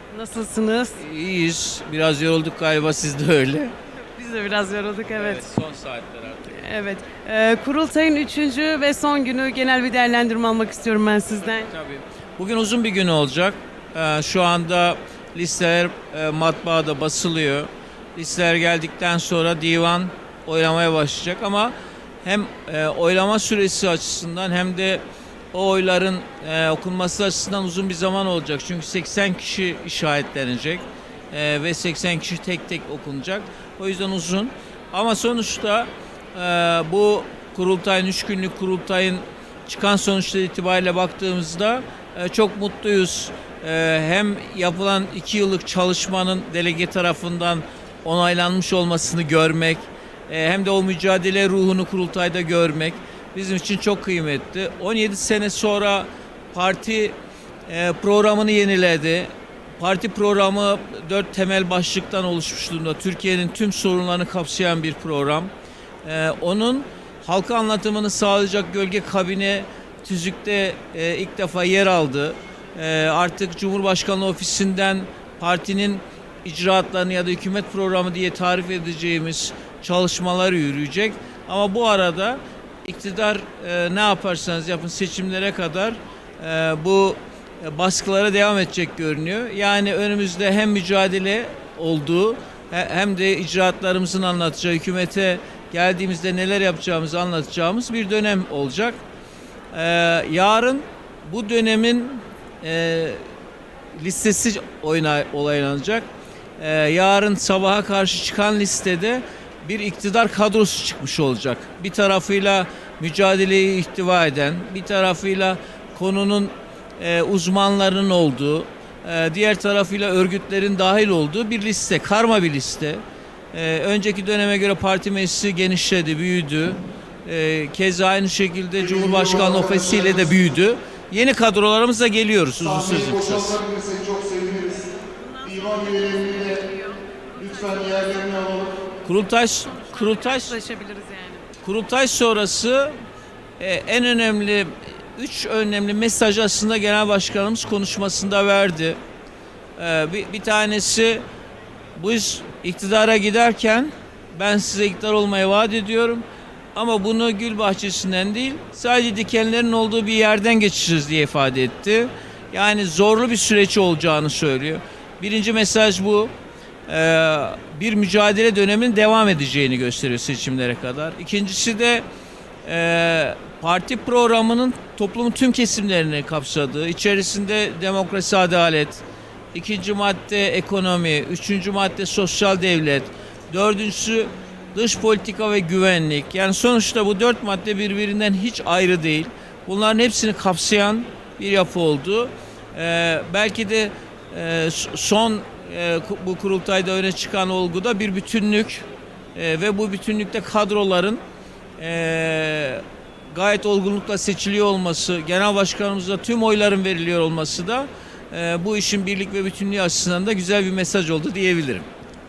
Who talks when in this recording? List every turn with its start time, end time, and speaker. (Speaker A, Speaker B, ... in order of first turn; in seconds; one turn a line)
Speaker A: 0.1-1.0
Speaker B: 1.0-3.7
Speaker A: 4.1-5.4
Speaker B: 5.1-6.6
Speaker A: 6.5-11.7
Speaker B: 11.5-57.1
Speaker B: 57.7-65.5
Speaker B: 66.0-99.0
Speaker B: 99.7-103.2
Speaker B: 103.9-106.1
Speaker B: 106.6-123.0
Speaker B: 123.5-133.6
Speaker C: 129.0-129.9
Speaker C: 132.8-134.8
Speaker A: 134.9-138.7
Speaker C: 135.5-136.3
Speaker C: 137.4-138.6
Speaker B: 139.0-140.6
Speaker A: 139.7-141.5
Speaker B: 141.6-142.9
Speaker B: 143.6-149.0
Speaker B: 149.8-151.2
Speaker B: 151.9-156.2
Speaker B: 156.7-166.3
Speaker B: 166.9-172.0
Speaker B: 172.6-179.0
Speaker B: 179.5-201.2
Speaker B: 201.8-211.9